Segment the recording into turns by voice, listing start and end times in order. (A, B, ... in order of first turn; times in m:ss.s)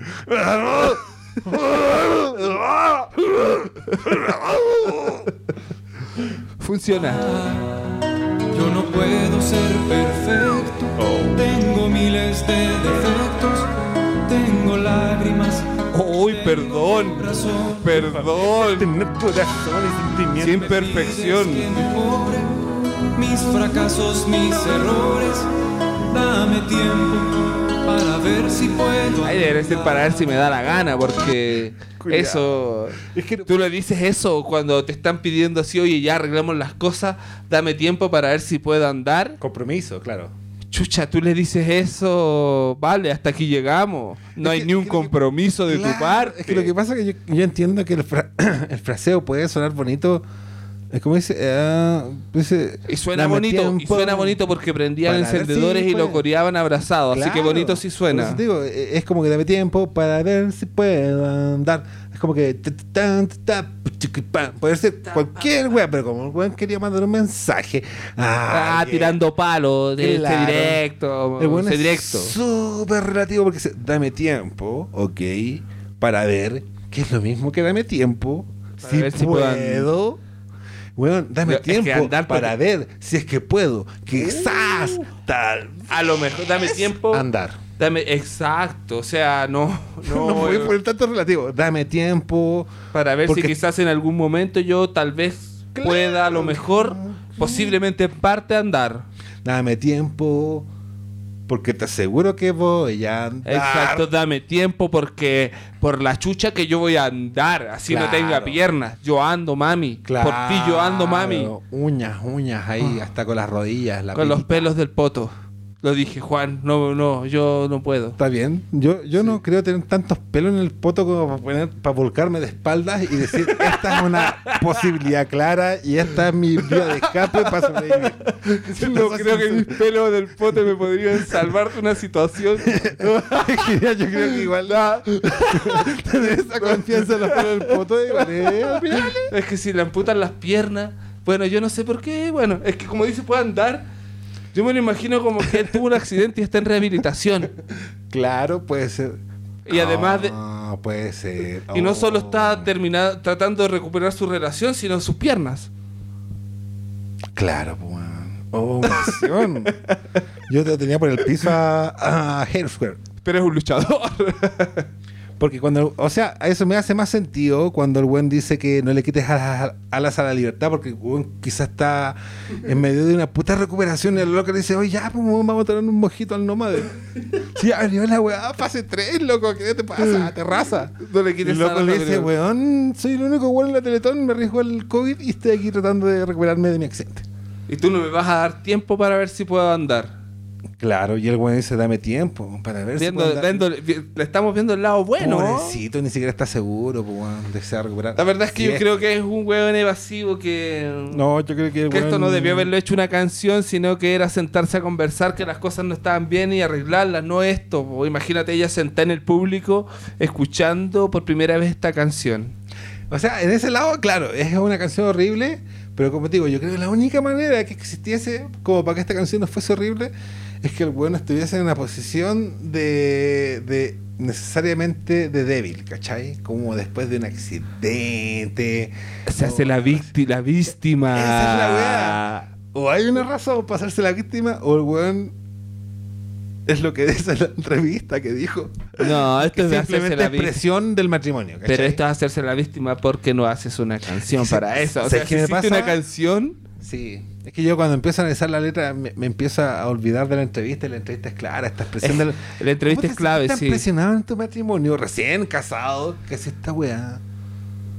0:00.2-0:05.3 A
0:03.4-0:04.1 B
0:06.6-0:07.3 B
0:07.1-0:07.7 C
0:08.5-0:13.7 C
0:11.0-0:11.4 A
0:14.2-0:18.0 C
0:15.9-0:18.9 B
0:17.9-0:20.8 A
0:20.4-0:21.7 B
0:20.6-0:22.6 C
0:23.1-0:25.5 C
0:26.1-0:30.3 C
0:29.2-0:39.4 B
0:32.0-0:33.5 A
0:39.4-0:40.3 A
0:40.7-0:46.7 B
0:44.4-0:50.2 A
0:50.9-0:54.4 A
0:52.9-0:58.4 B
0:55.0-0:56.2 A
0:57.1-1:09.2 A
1:05.1-1:05.4 B
1:08.5-1:12.4 B
1:10.0-1:10.8 A
1:11.4-1:20.2 A
1:18.8-1:19.9 B
1:21.0-1:27.6 A
1:21.4-1:22.6 B
1:24.2-1:25.1 B
1:25.9-1:27.3 B
1:27.8-1:30.7 B
1:30.0-1:32.7 A
1:32.9-1:39.1 B
1:33.3-1:33.6 A
1:35.8-1:37.8 A
1:39.4-1:40.7 A
1:41.5-1:44.1 A
1:43.4-1:51.5 B
1:47.9-1:48.6 A
1:50.0-1:54.7 A
1:54.1-1:58.2 B
1:58.2-2:09.8 A
2:03.4-2:04.8 B
2:06.6-2:23.9 B
2:11.2-2:11.5 A
2:12.6-2:19.3 A
2:24.5-2:27.5 B
2:28.1-2:32.7 A
2:29.6-2:30.4 B
2:31.7-2:35.7 B
2:37.4-2:39.8 A
2:38.9-2:39.2 B
2:40.5-2:43.0 A
2:43.2-2:44.9 B
2:45.4-3:07.3 A
3:01.0-3:02.3 B
3:07.7-3:10.1 B
3:10.8-3:13.7 A
3:13.0-3:15.8 B
3:15.2-3:18.9 A
3:18.2-3:21.2 B
3:21.1-3:22.7 A
3:21.9-3:32.6 B
3:33.1-3:50.1 A
3:49.3-3:52.5 B
3:51.1-3:55.4 A
3:56.6-4:02.0 A
3:59.0-4:00.6 B
4:01.6-4:06.6 B
4:04.2-4:06.0 A
4:06.8-4:17.2 A
4:12.0-4:13.8 B